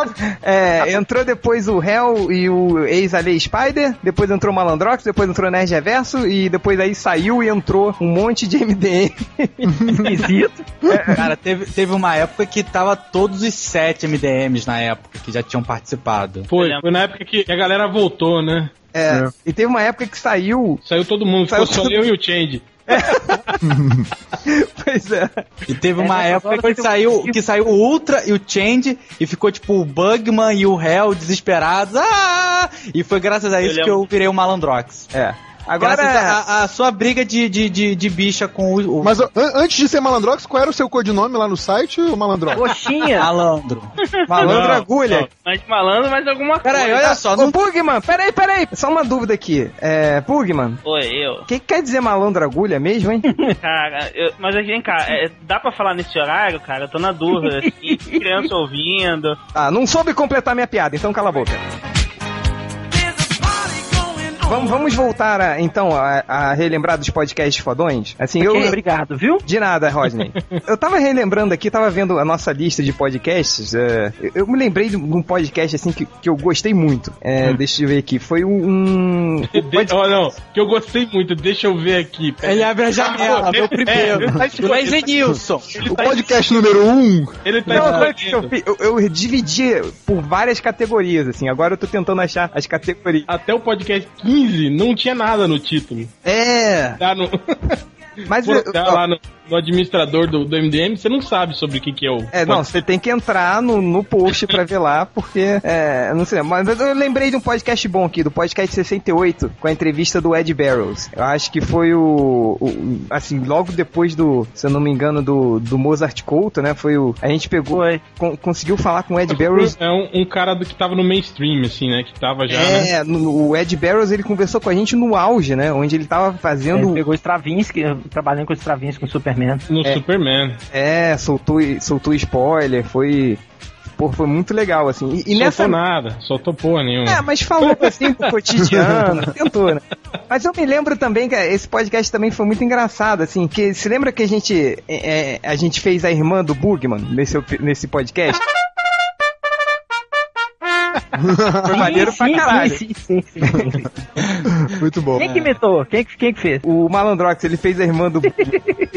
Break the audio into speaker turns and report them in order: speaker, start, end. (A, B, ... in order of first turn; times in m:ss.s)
0:00.2-0:10.0 A
0:09.7-0:10.2 B
0:09.9-0:10.7 C
0:10.9-0:11.1 B
0:10.9-0:11.2 A
0:11.1-0:16.5 D
0:16.5-0:18.7 E
0:16.5-0:16.8 F
0:18.9-0:20.8 A
0:20.8-0:22.6 E
0:21.5-0:22.0 A
0:22.9-0:23.6 A
0:23.6-0:24.1 B
0:24.4-0:25.4 A
0:25.7-0:35.1 D
0:26.0-0:27.4 C
0:33.6-0:34.1 F
0:35.1-0:36.4 A
0:35.8-0:39.2 D
0:39.0-0:42.8 B
0:42.5-0:43.3 C
0:43.1-0:43.9 D
0:44.0-0:44.7 F
0:44.3-0:45.3 A
0:44.4-0:44.9 E
0:45.3-0:47.2 F
0:46.6-0:47.6 D
0:47.3-0:50.8 A
0:50.8-0:51.4 F
0:51.5-0:53.2 A
0:53.6-0:59.4 F
0:57.4-0:58.5 C
0:59.5-1:01.6 A
1:03.4-1:04.3 C
1:04.4-1:08.8 A
1:08.4-1:09.4 C
1:09.4-1:20.0 A
1:19.5-1:25.1 E
1:22.4-1:26.1 D
1:25.8-1:26.2 E
1:25.8-1:27.4 B
1:27.4-1:28.5 E
1:27.6-1:33.3 A
1:33.3-1:36.1 E
1:36.2-1:37.0 A
1:37.0-1:37.8 E
1:38.3-1:39.0 A
1:38.3-1:42.7 E
1:42.3-1:59.7 A
1:57.7-1:58.0 C
1:59.3-2:02.9 E
2:02.5-2:07.0 A
2:06.7-2:09.6 C
2:09.7-2:10.6 E
2:10.7-2:13.4 A
2:14.0-2:15.8 A
2:15.3-2:17.8 E
2:17.0-2:28.4 A
2:18.7-2:19.0 B
2:31.2-2:32.1 B
2:31.7-2:33.9 C
2:31.7-2:32.8 A
2:34.7-2:35.3 B
2:35.2-2:36.6 C
2:36.6-2:38.5 A
2:38.4-2:38.8 C